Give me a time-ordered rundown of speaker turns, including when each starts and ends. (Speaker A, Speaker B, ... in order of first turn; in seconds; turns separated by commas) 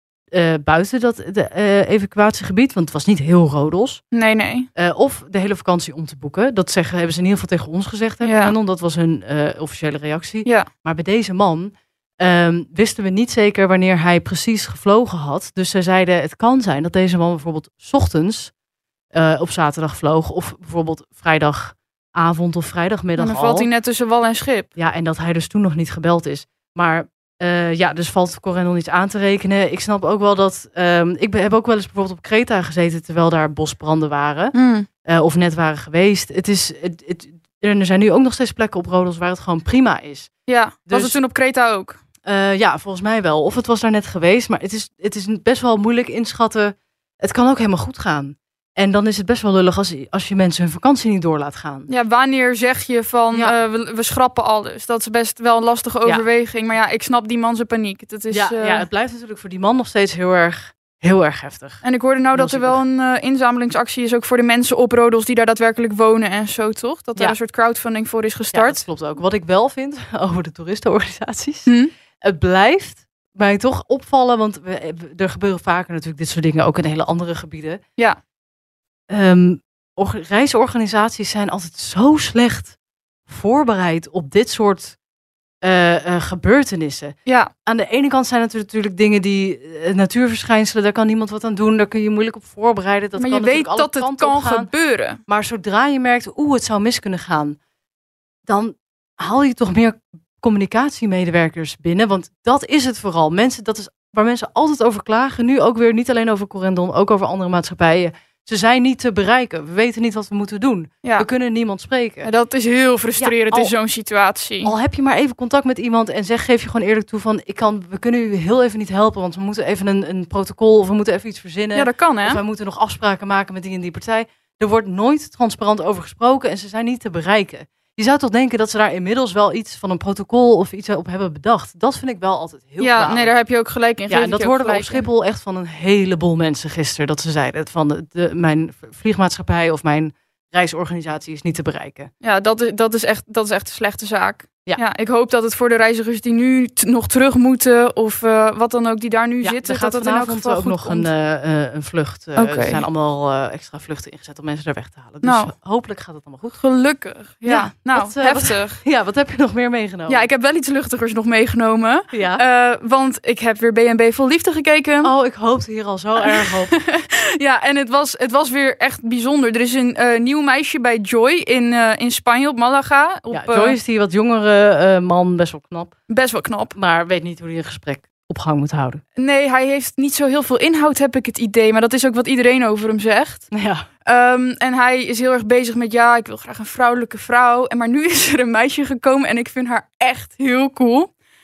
Speaker A: 0.3-4.0, Speaker B: 4.1-4.7, Speaker A: 4.8-18.5, Speaker B: 8.2-8.5, Speaker A: 19.1-23.7, Speaker B: 23.2-24.7, Speaker A: 24.8-34.5, Speaker B: 34.5-34.9, Speaker A: 35.1-40.3, Speaker B: 40.5-42.0, Speaker A: 40.9-41.2, Speaker A: 42.2-51.9, Speaker B: 51.9-58.9, Speaker A: 58.3-61.8, Speaker B: 61.8-68.8, Speaker A: 62.3-62.8, Speaker A: 68.5-71.7, Speaker A: 72.2-77.8, Speaker A: 79.1-82.8, Speaker A: 83.3-85.0, Speaker A: 85.6-94.7, Speaker B: 93.2-95.2, Speaker A: 95.3-97.6, Speaker A: 98.5-112.3, Speaker B: 112.2-114.7, Speaker A: 113.2-113.7, Speaker A: 114.6-133.3, Speaker B: 121.8-122.4, Speaker B: 132.8-135.1, Speaker A: 134.1-142.1, Speaker B: 142.2-151.1, Speaker A: 149.4-156.6, Speaker B: 152.4-152.8, Speaker B: 155.2-155.5, Speaker B: 156.6-158.8, Speaker A: 157.5-160.3, Speaker B: 160.1-165.1, Speaker A: 162.1-162.4, Speaker A: 165.0-166.7, Speaker B: 166.2-173.8, Speaker A: 173.3-175.9, Speaker B: 176.1-176.8, Speaker A: 176.8-179.0, Speaker B: 179.2-183.5, Speaker A: 183.5-183.9, Speaker B: 184.1-191.1